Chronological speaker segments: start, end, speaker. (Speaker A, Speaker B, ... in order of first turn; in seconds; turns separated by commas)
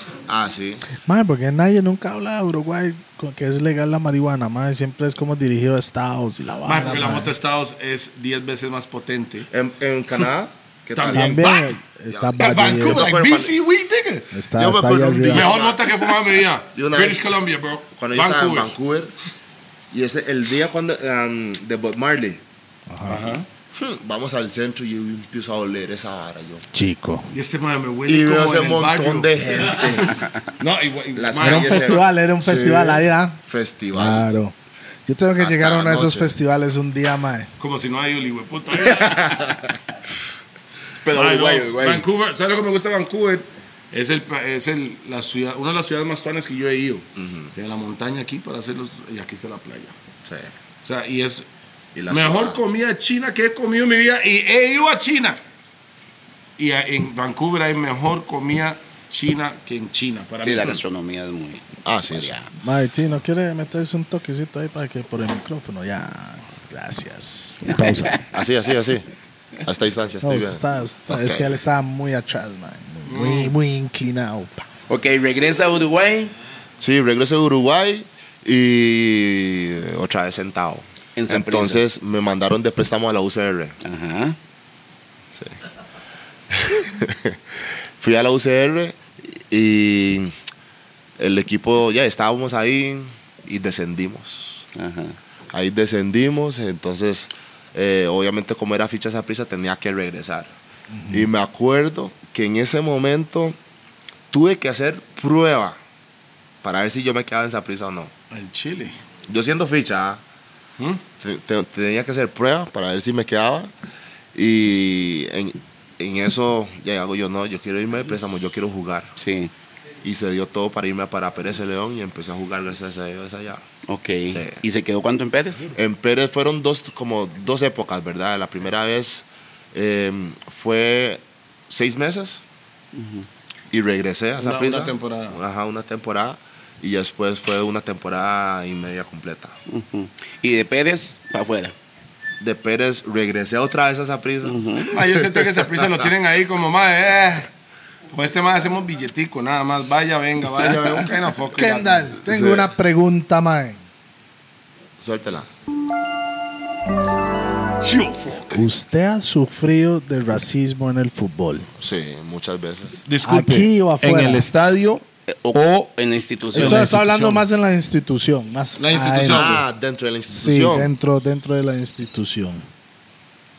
Speaker A: 0.3-0.8, Speaker B: 1.0-7.3, Speaker C: 6.6-9.5, Speaker A: 9.5-11.5, Speaker C: 10.9-11.7, Speaker B: 11.1-13.1, Speaker A: 12.1-13.6, Speaker C: 12.4-14.3, Speaker B: 14.3-15.5, Speaker A: 14.5-16.1, Speaker C: 15.3-18.7, Speaker A: 16.7-17.3, Speaker A: 17.9-19.1, Speaker A: 19.9-22.4, Speaker B: 22.9-23.4, Speaker C: 23.1-23.4, Speaker A: 23.7-26.6, Speaker B: 26.7-27.3, Speaker C: 27.3-29.3, Speaker A: 28.1-30.2, Speaker C: 30.6-32.0, Speaker A: 31.1-34.2, Speaker B: 31.4-33.4, Speaker B: 33.9-34.5, Speaker B: 35.1-37.5, Speaker A: 35.4-36.3, Speaker C: 37.6-39.2, Speaker A: 38.9-39.7, Speaker D: 41.0-42.0, Speaker C: 41.1-49.9, Speaker A: 47.2-47.5, Speaker A: 50.2-50.5, Speaker C: 50.9-51.5, Speaker A: 51.9-52.6, Speaker C: 52.1-55.4, Speaker C: 56.6-60.8, Speaker D: 60.4-62.5, Speaker A: 61.8-62.4, Speaker B: 62.6-68.2, Speaker D: 67.6-68.2, Speaker A: 68.3-69.1, Speaker A: 69.6-71.6, Speaker B: 70.2-74.7, Speaker C: 73.1-73.5, Speaker D: 74.9-76.3, Speaker A: 76.8-83.8, Speaker D: 81.2-81.8, Speaker D: 83.8-84.4, Speaker A: 86.5-90.3, Speaker A: 91.2-94.6, Speaker D: 94.8-95.2, Speaker A: 95.5-100.5, Speaker B: 100.9-101.3, Speaker A: 101.1-103.6, Speaker A: 104.3-105.8, Speaker A: 106.6-108.1, Speaker C: 108.3-108.9, Speaker A: 109.3-110.2, Speaker A: 111.2-113.7, Speaker A: 114.3-119.1, Speaker D: 119.2-119.5, Speaker A: 120.0-123.6, Speaker D: 123.9-125.7, Speaker A: 124.3-124.6, Speaker A: 125.7-132.4, Speaker D: 132.9-133.3, Speaker A: 133.7-139.5, Speaker C: 134.4-135.4, Speaker D: 139.7-141.7, Speaker A: 142.4-146.1, Speaker D: 144.4-144.9, Speaker C: 144.9-147.5, Speaker C: 148.1-152.2, Speaker B: 151.5-153.8, Speaker A: 152.2-152.7, Speaker A: 155.0-155.5, Speaker C: 157.8-158.6, Speaker B: 158.5-161.7, Speaker A: 161.8-163.0, Speaker C: 163.1-165.9, Speaker B: 163.2-164.4, Speaker D: 165.3-166.9, Speaker C: 166.5-167.4, Speaker B: 166.5-169.6, Speaker C: 168.8-169.6, Speaker A: 169.2-170.9, Speaker B: 170.3-172.6